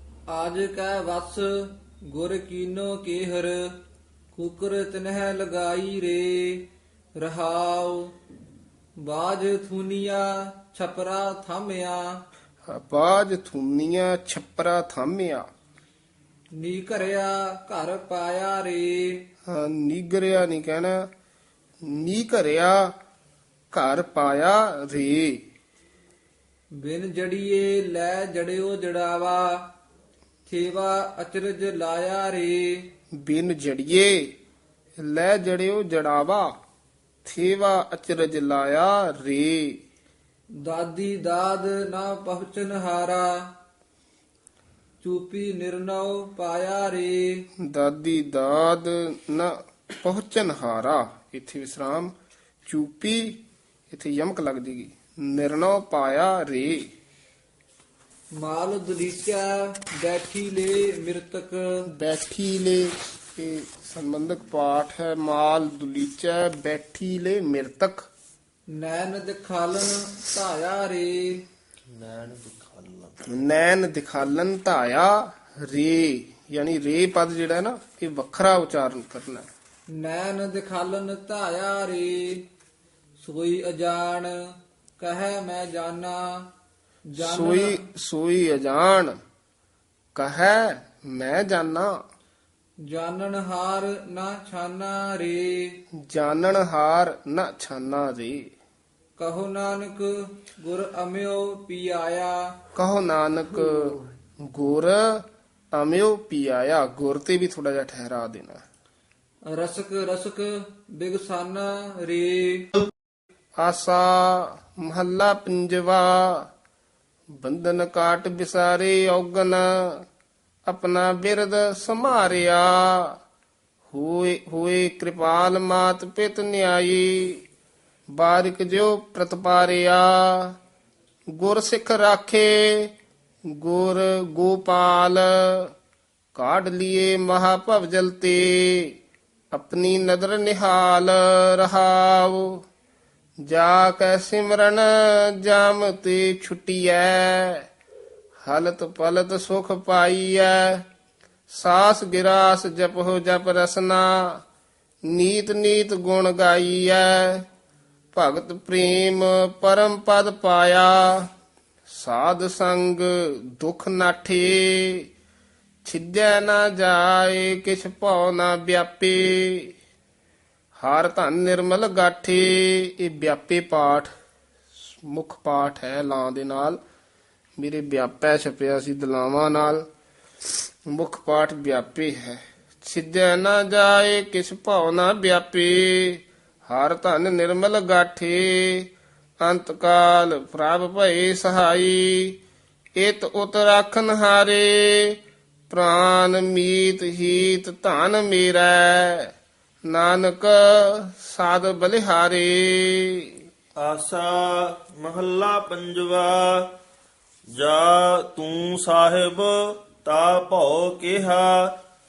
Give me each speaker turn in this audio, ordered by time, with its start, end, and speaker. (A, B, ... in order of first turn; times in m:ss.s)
0:00.3-0:03.7 A
0:04.3-0:08.1 A
0:09.0-0:12.2 A
0:12.7-0:15.5 B
0:16.6-0:19.2 A
0:19.4-0:21.1 B
0:21.8-0:22.9 B
0:23.7-0:25.4 B
0:26.8-0:29.7 A
0:30.5-0:32.9 A
0:33.1-0:34.3 B
0:35.0-0:36.6 B
0:37.2-0:39.8 B
0:40.6-0:43.4 A
0:45.0-0:47.4 A
0:47.6-0:52.1 B
0:52.7-0:56.9 B
0:58.4-1:01.8 A
1:01.9-1:08.1 B
1:08.7-1:11.4 A
1:11.9-1:13.2 C
1:13.3-1:19.5 B
1:20.0-1:22.4 A
1:23.2-1:24.4 A
1:25.0-1:26.5 A
1:27.1-1:27.8 A
1:27.2-1:29.1 B
1:30.1-1:32.0 B
1:32.8-1:35.8 A
1:36.0-1:38.5 B
1:39.2-1:42.4 A
1:42.7-1:48.6 B
1:49.5-1:52.7 A
1:53.6-1:56.5 B
1:57.3-2:00.0 B
2:00.6-2:03.2 B
2:03.9-2:07.4 B
2:08.1-2:10.6 B
2:11.3-2:12.9 B
2:13.5-2:15.7 B
2:16.3-2:18.9 B
2:19.5-2:22.6 B
2:23.4-2:27.6 B
2:28.4-2:30.8 B
2:31.5-2:34.4 B
2:35.1-2:37.4 B
2:38.1-2:41.3 B
2:41.9-2:45.1 B
2:45.8-2:49.7 B
2:50.8-2:54.1 B
2:54.8-2:56.8 B
2:57.6-2:59.8 B
3:00.9-3:12.4 B
3:13.0-3:15.2 B
3:15.7-3:19.3 B
3:19.9-3:23.4 B
3:23.8-3:26.7 C
3:27.5-3:31.8 C